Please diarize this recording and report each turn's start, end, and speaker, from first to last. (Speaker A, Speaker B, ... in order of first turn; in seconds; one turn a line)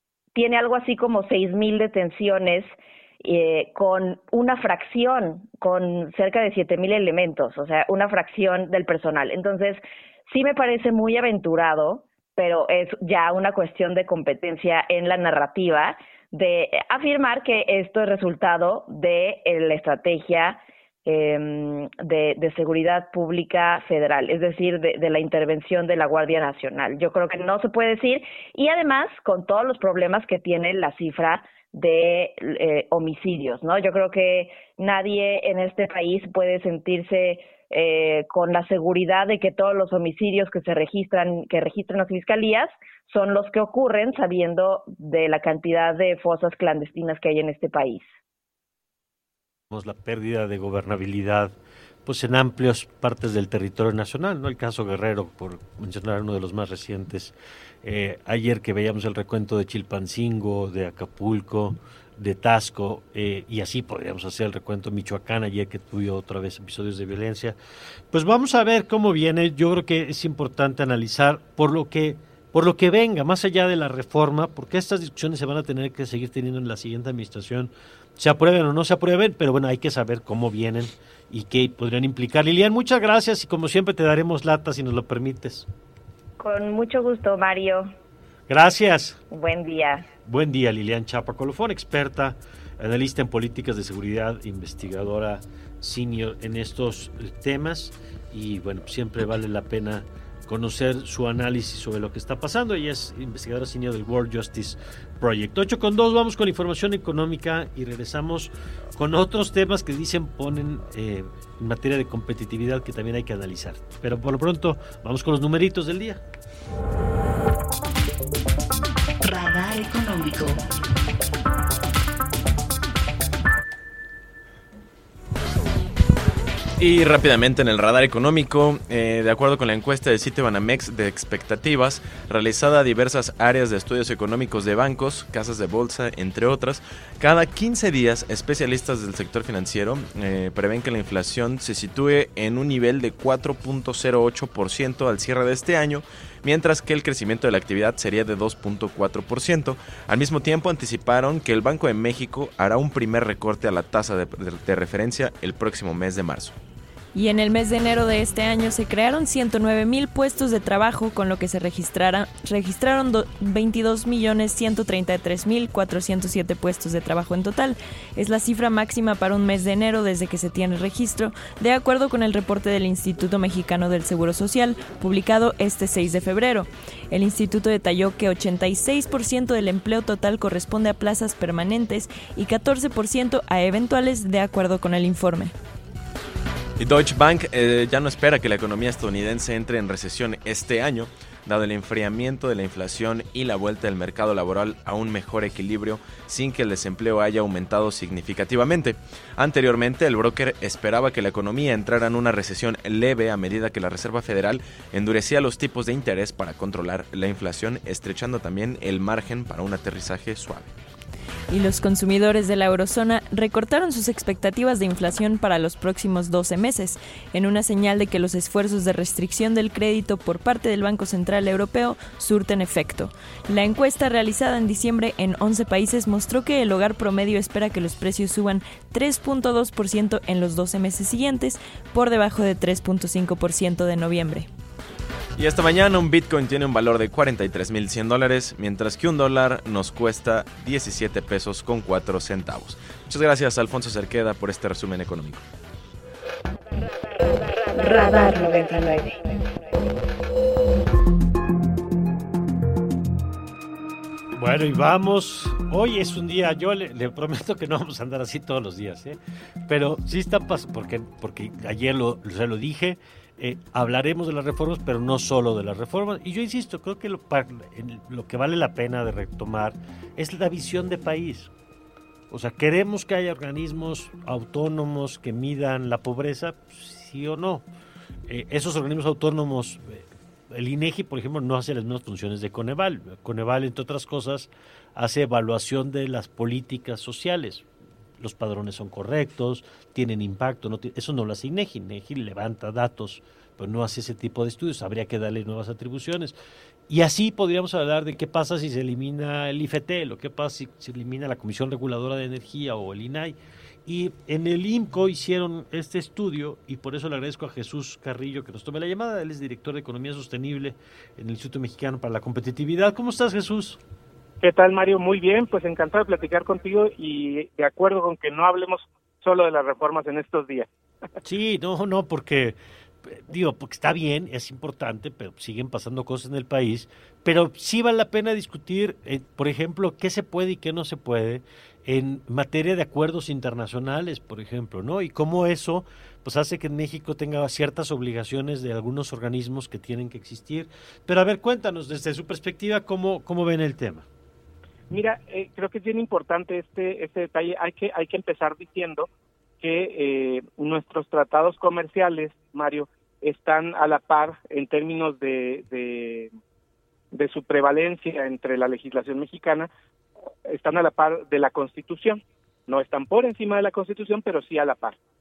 Speaker A: 0.3-48.1
Speaker B: 49.7-67.5
Speaker B: 68.1-85.7
Speaker A: 86.4-87.9
Speaker B: 88.5-89.2
Speaker A: 89.3-90.0
Speaker B: 90.2-116.2
Speaker C: 119.2-120.6
Speaker D: 126.8-156.6
Speaker E: 157.1-185.5
Speaker D: 186.8-210.7
Speaker E: 211.5-234.5
Speaker D: 235.3-245.4
Speaker C: 247.8-249.1
Speaker B: 254.3-271.5
Speaker B: 272.3-277.6
Speaker B: 278.3-287.6
Speaker B: 288.2-296.3
Speaker B: 296.9-313.8
Speaker F: 314.4-320.7
Speaker B: 321.2-344.0
Speaker F: 344.9-349.1
Speaker F: 349.6-356.3
Speaker F: 357.1-359.7
Speaker F: 360.5-365.0